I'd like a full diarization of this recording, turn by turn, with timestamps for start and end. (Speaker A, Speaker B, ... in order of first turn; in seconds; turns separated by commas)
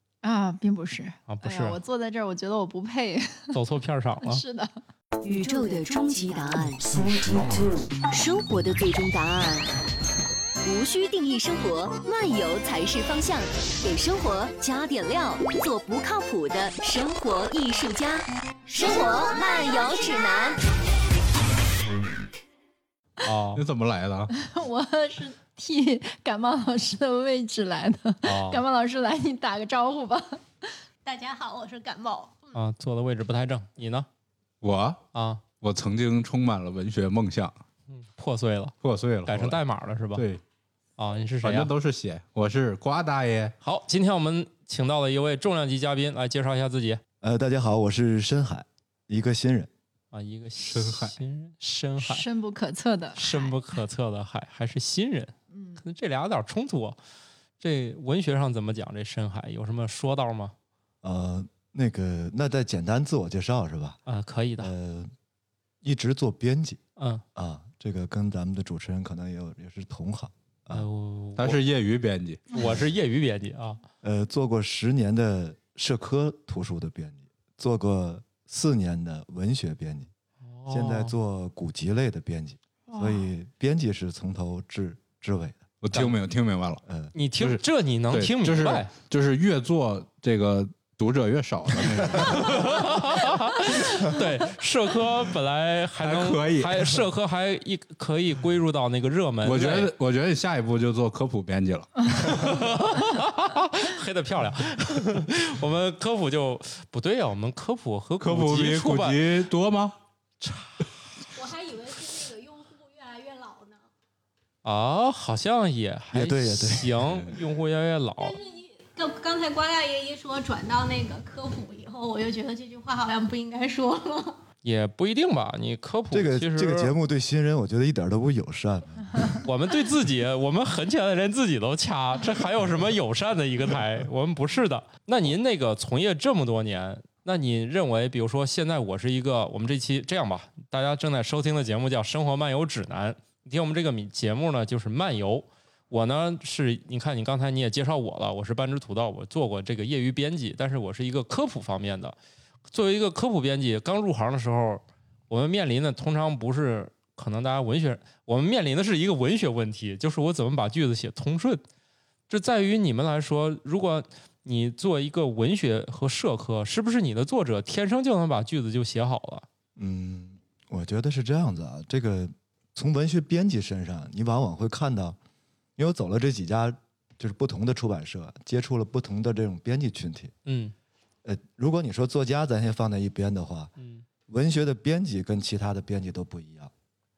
Speaker A: 0.2-3.5, Speaker B: 1.3-1.8, Speaker B: 3.5-4.4, Speaker A: 4.2-4.7, Speaker C: 5.2-9.7, Speaker C: 10.6-20.6, Speaker B: 23.2-23.6, Speaker D: 23.6-24.3, Speaker A: 24.4-30.7, Speaker B: 28.2-28.6, Speaker E: 31.0-32.5, Speaker B: 32.5-34.1, Speaker D: 34.6-35.0, Speaker B: 35.1-35.4, Speaker D: 35.6-37.6, Speaker B: 37.9-38.7, Speaker D: 38.8-39.6, Speaker B: 39.2-40.2, Speaker D: 40.1-40.4, Speaker B: 41.0-41.7, Speaker D: 41.4-43.5, Speaker B: 43.6-47.0, Speaker F: 47.2-49.7, Speaker B: 50.1-52.3, Speaker D: 50.6-51.1, Speaker A: 52.0-53.5, Speaker B: 53.1-57.0, Speaker A: 55.5-55.8, Speaker B: 57.6-60.5, Speaker F: 61.0-64.0, Speaker B: 64.1-64.7, Speaker F: 64.6-65.1, Speaker F: 65.8-66.8, Speaker B: 67.0-67.2, Speaker F: 67.3-70.8, Speaker B: 70.7-71.6, Speaker D: 71.4-72.4, Speaker B: 72.5-73.8, Speaker F: 74.0-80.1, Speaker B: 80.4-81.2, Speaker F: 80.7-85.7, Speaker A: 82.9-83.3, Speaker D: 85.8-86.8, Speaker F: 86.8-87.1, Speaker B: 87.1-88.9, Speaker D: 87.4-92.7, Speaker B: 92.2-99.9, Speaker D: 96.0-97.0, Speaker D: 99.4-102.4, Speaker B: 102.1-109.2, Speaker D: 108.2-110.0, Speaker B: 110.4-110.8, Speaker E: 111.3-113.8, Speaker B: 114.6-118.4, Speaker F: 116.1-117.0, Speaker E: 118.2-124.4, Speaker B: 124.6-126.9, Speaker F: 126.1-129.4, Speaker B: 129.4-152.2, Speaker B: 152.7-161.6, Speaker B: 162.3-169.4, Speaker F: 169.8-175.2, Speaker F: 175.8-180.3, Speaker B: 180.4-180.7, Speaker F: 181.2-183.7, Speaker B: 183.8-184.0, Speaker F: 184.3-186.7